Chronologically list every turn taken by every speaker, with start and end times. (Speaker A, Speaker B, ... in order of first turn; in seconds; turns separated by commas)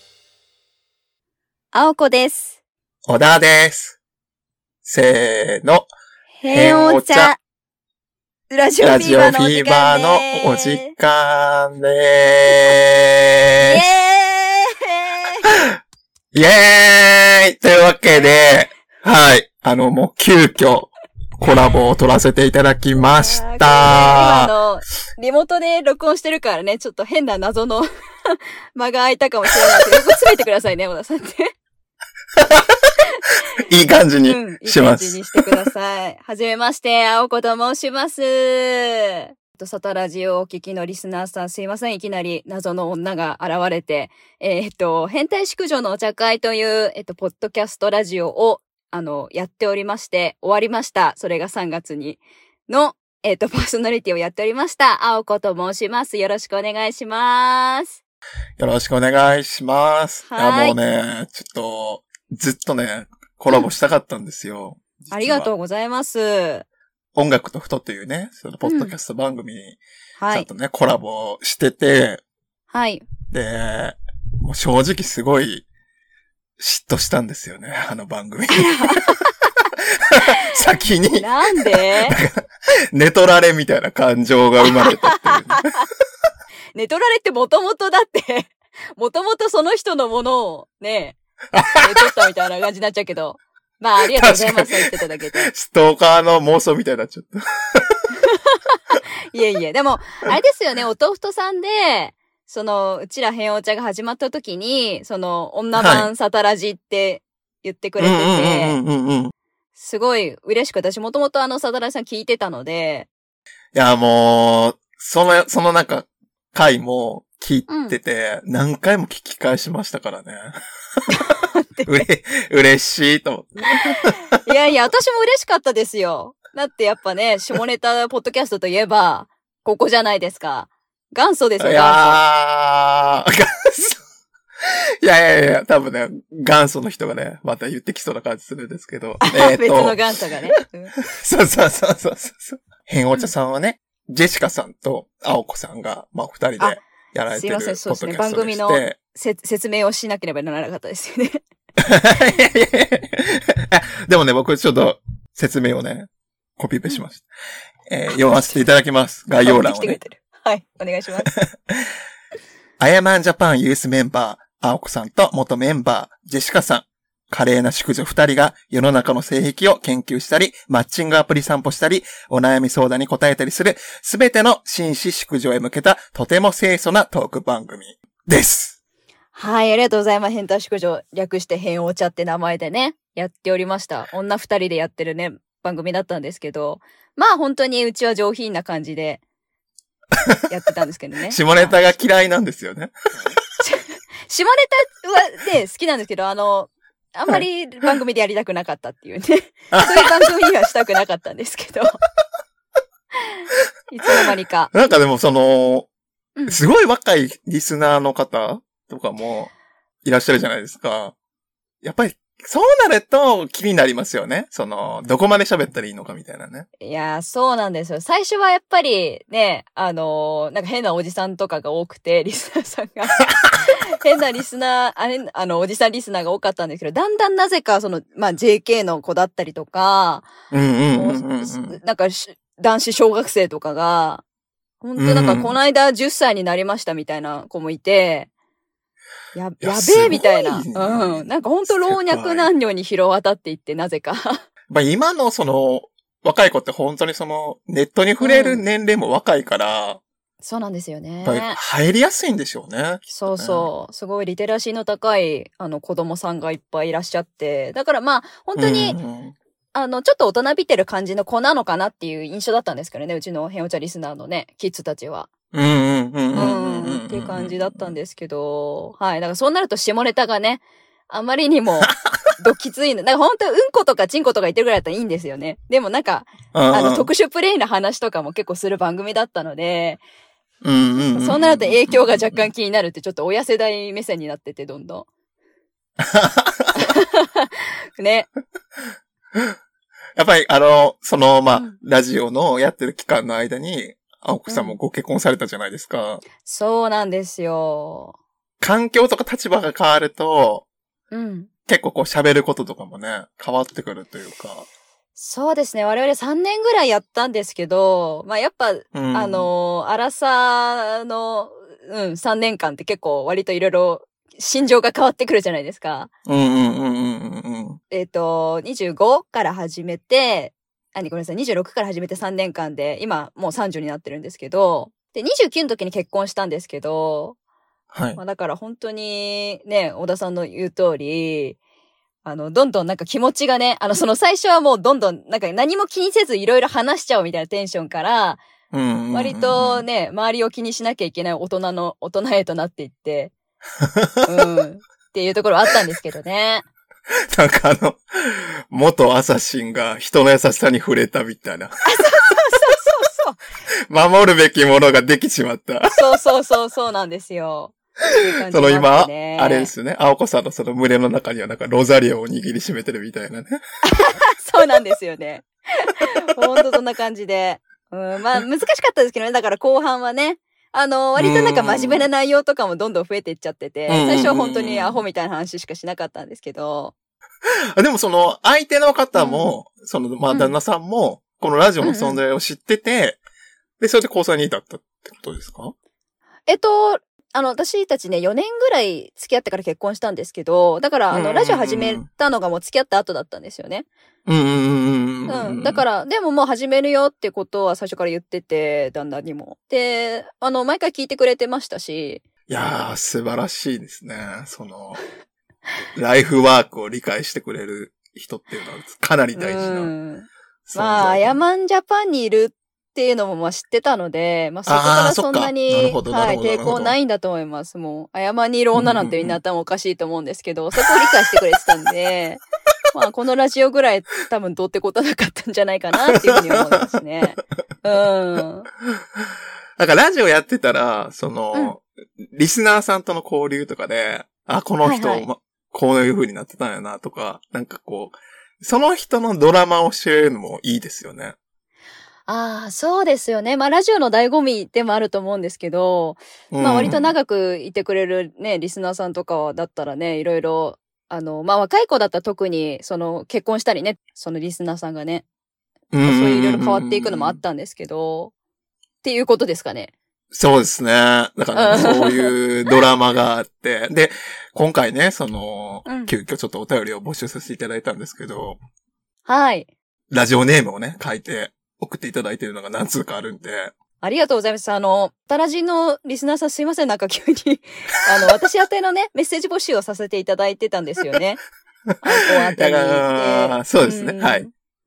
Speaker A: 1.7-2.6, Speaker B: 3.1-4.0, Speaker B: 4.8-5.9, Speaker A: 6.4-7.4, Speaker B: 6.5-7.3, Speaker A: 8.5-10.9, Speaker B: 8.8-13.8, Speaker A: 13.6-15.4, Speaker B: 16.3-24.5, Speaker A: 23.0-31.5, Speaker B: 29.8-30.0, Speaker B: 32.4-32.9, Speaker B: 33.6-35.6, Speaker A: 34.2-58.0, Speaker B: 58.6-65.5, Speaker A: 60.3-60.8, Speaker A: 65.1-66.7, Speaker B: 67.1-72.2, Speaker A: 68.6-68.9, Speaker A: 70.2-70.5, Speaker A: 72.7-73.0, Speaker B: 73.3-75.7, Speaker B: 76.6-79.1, Speaker A: 78.5-79.5, Speaker B: 80.0-85.7, Speaker A: 81.1-82.2, Speaker A: 84.7-85.8, Speaker A: 86.7-91.2, Speaker B: 91.5-91.8, Speaker A: 91.7-95.5, Speaker B: 94.2-94.9, Speaker B: 95.4-98.0, Speaker A: 98.2-98.8, Speaker A: 99.3-108.8, Speaker B: 105.8-106.1, Speaker B: 108.0-109.3, Speaker A: 109.8-113.1, Speaker B: 113.7-121.0, Speaker A: 117.7-118.0, Speaker A: 121.1-122.0, Speaker B: 121.8-124.3, Speaker A: 123.7-132.2, Speaker B: 131.6-134.0, Speaker B: 134.6-140.0, Speaker A: 139.2-140.9, Speaker B: 141.0-149.0, Speaker A: 147.3-151.4, Speaker B: 151.8-157.2, Speaker B: 157.9-160.0, Speaker A: 158.1-158.6, Speaker A: 159.4-161.3, Speaker B: 161.3-161.8, Speaker B: 162.8-178.8, Speaker A: 179.3-189.2, Speaker A: 190.5-191.9, Speaker B: 191.3-192.9, Speaker A: 193.6-202.0, Speaker B: 199.7-200.1, Speaker A: 203.9-204.7, Speaker B: 204.2-205.9, Speaker B: 206.5-209.5, Speaker B: 210.0-211.2, Speaker B: 211.8-216.7, Speaker A: 216.8-230.3, Speaker B: 230.5-231.8, Speaker A: 230.9-234.2, Speaker A: 234.8-238.3, Speaker B: 235.0-235.6, Speaker A: 239.3-244.4, Speaker B: 239.6-242.5, Speaker B: 244.7-250.0, Speaker A: 248.2-248.6, Speaker A: 250.4-251.6, Speaker B: 251.2-253.7, Speaker A: 253.1-259.0, Speaker B: 258.6-259.4, Speaker A: 259.7-265.3, Speaker B: 265.5-267.9, Speaker A: 266.3-280.0, Speaker B: 276.5-277.1, Speaker B: 280.6-282.4, Speaker A: 281.1-285.1, Speaker B: 286.0-286.8, Speaker A: 286.8-288.3, Speaker B: 290.2-296.2, Speaker A: 294.5-294.8, Speaker A: 296.4-298.1, Speaker B: 298.6-300.6, Speaker A: 301.1-301.5, Speaker B: 301.7-304.7, Speaker A: 305.2-316.1, Speaker B: 308.9-309.5, Speaker B: 316.2-317.8, Speaker A: 317.9-327.4, Speaker B: 327.9-328.2, Speaker A: 328.2-331.6, Speaker A: 332.2-338.4, Speaker B: 338.7-339.9, Speaker A: 339.1-343.3, Speaker B: 343.8-344.2, Speaker A: 344.2-346.6, Speaker B: 347.3-351.7, Speaker A: 351.9-353.4, Speaker B: 353.9-355.9, Speaker A: 355.9-357.8, Speaker A: 358.4-359.7, Speaker B: 358.5-363.6, Speaker A: 363.9-376.9, Speaker B: 371.2-372.1, Speaker B: 373.9-375.0, Speaker B: 377.8-383.2, Speaker A: 379.1-379.4, Speaker A: 380.3-380.6, Speaker A: 381.8-382.2, Speaker B: 383.8-385.7, Speaker A: 386.5-393.9, Speaker B: 391.1-392.0, Speaker B: 394.2-395.8, Speaker A: 395.3-402.2, Speaker B: 402.5-405.0, Speaker B: 405.9-409.9, Speaker A: 409.4-428.7, Speaker B: 410.7-411.4, Speaker B: 414.7-416.9, Speaker B: 418.8-419.3, Speaker B: 426.1-426.9, Speaker B: 429.8-441.4, Speaker A: 434.8-435.2, Speaker A: 442.3-455.2, Speaker B: 446.5-447.1, Speaker B: 455.9-457.4, Speaker A: 456.0-458.3, Speaker A: 459.0-459.9, Speaker B: 460.3-468.6, Speaker A: 461.6-462.3, Speaker A: 465.9-466.1, Speaker A: 469.3-469.7, Speaker B: 470.1-473.7, Speaker A: 474.0-481.4, Speaker A: 482.0-484.5, Speaker B: 482.3-484.4